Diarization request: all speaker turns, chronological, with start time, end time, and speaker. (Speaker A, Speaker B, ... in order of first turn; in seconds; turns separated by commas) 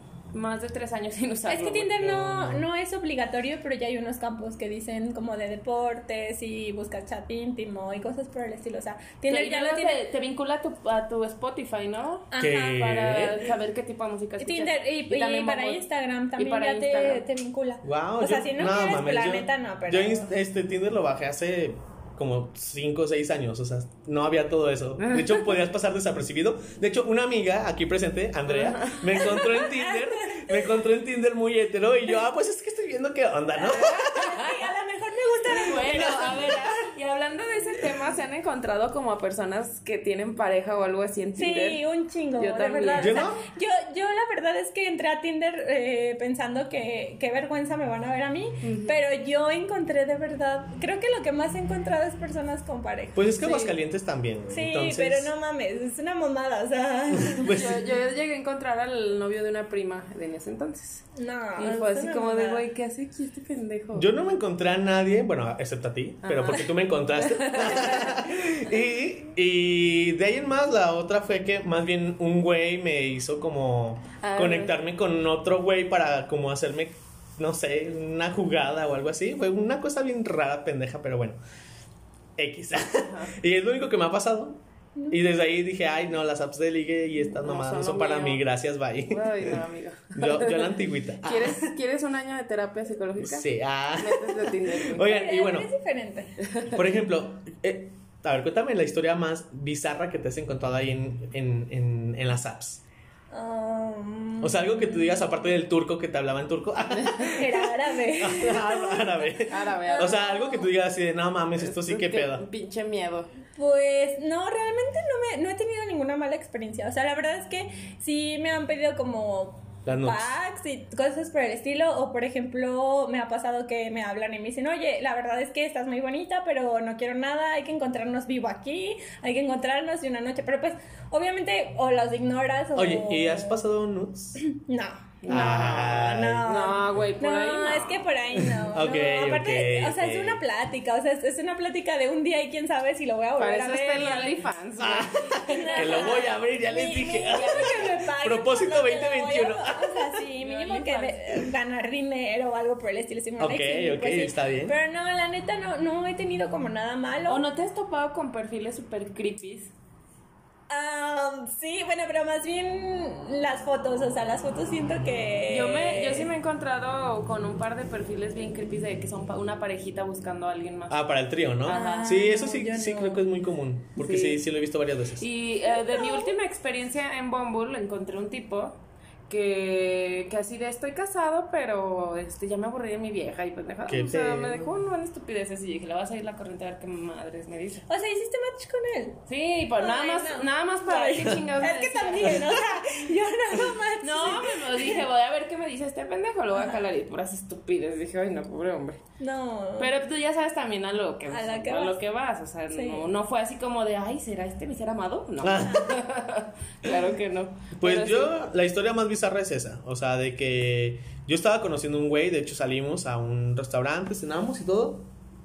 Speaker A: 0.3-2.0, Speaker B: 1.5-10.0, Speaker C: 2.0-2.6, Speaker A: 9.3-15.8, Speaker B: 12.3-12.8, Speaker C: 12.4-13.4, Speaker B: 14.4-20.3, Speaker A: 16.4-17.2, Speaker C: 17.8-34.2, Speaker A: 25.0-25.5, Speaker A: 28.5-29.3, Speaker B: 29.1-30.6, Speaker A: 33.6-34.6, Speaker B: 33.8-36.5, Speaker A: 35.5-41.8, Speaker C: 35.9-36.7, Speaker B: 41.4-53.6, Speaker A: 42.4-43.2, Speaker C: 43.0-43.4, Speaker A: 48.6-49.0, Speaker C: 53.1-55.3, Speaker A: 53.4-53.7, Speaker B: 54.5-57.5, Speaker C: 57.2-57.8, Speaker A: 57.5-64.1, Speaker B: 61.1-62.6, Speaker C: 63.9-81.4, Speaker A: 66.2-68.2, Speaker A: 74.2-74.7, Speaker C: 82.4-84.6, Speaker A: 83.1-83.3, Speaker C: 85.1-89.6, Speaker A: 87.4-88.4, Speaker A: 89.0-95.1, Speaker C: 90.1-91.7, Speaker C: 93.2-95.7, Speaker B: 95.0-96.4, Speaker A: 96.4-96.8, Speaker C: 96.7-102.8, Speaker B: 103.3-105.0, Speaker C: 104.4-112.4, Speaker A: 107.0-107.3, Speaker B: 107.3-109.3, Speaker A: 109.5-110.2, Speaker B: 109.9-110.7, Speaker A: 111.6-113.3, Speaker B: 113.5-133.6, Speaker C: 119.8-120.3, Speaker C: 132.8-134.4, Speaker B: 134.4-144.4, Speaker A: 135.2-138.1, Speaker C: 135.3-136.5, Speaker C: 138.3-140.4, Speaker A: 143.4-146.3, Speaker C: 144.8-150.2, Speaker B: 145.5-157.4, Speaker A: 147.4-147.7, Speaker A: 150.4-151.2, Speaker C: 153.4-154.7, Speaker A: 157.3-159.7, Speaker B: 160.7-166.3, Speaker A: 165.5-171.0, Speaker C: 170.9-175.3, Speaker A: 171.6-172.2, Speaker B: 171.7-173.2, Speaker A: 174.0-174.4, Speaker A: 175.2-178.8, Speaker B: 175.8-176.3, Speaker A: 179.3-187.8, Speaker C: 183.9-184.7, Speaker B: 187.9-189.2, Speaker A: 189.3-192.6, Speaker B: 189.8-195.0, Speaker A: 194.0-199.0, Speaker B: 199.2-199.9, Speaker A: 199.8-208.3, Speaker B: 201.3-202.0, Speaker B: 202.7-203.1, Speaker C: 205.4-206.0, Speaker C: 207.8-215.1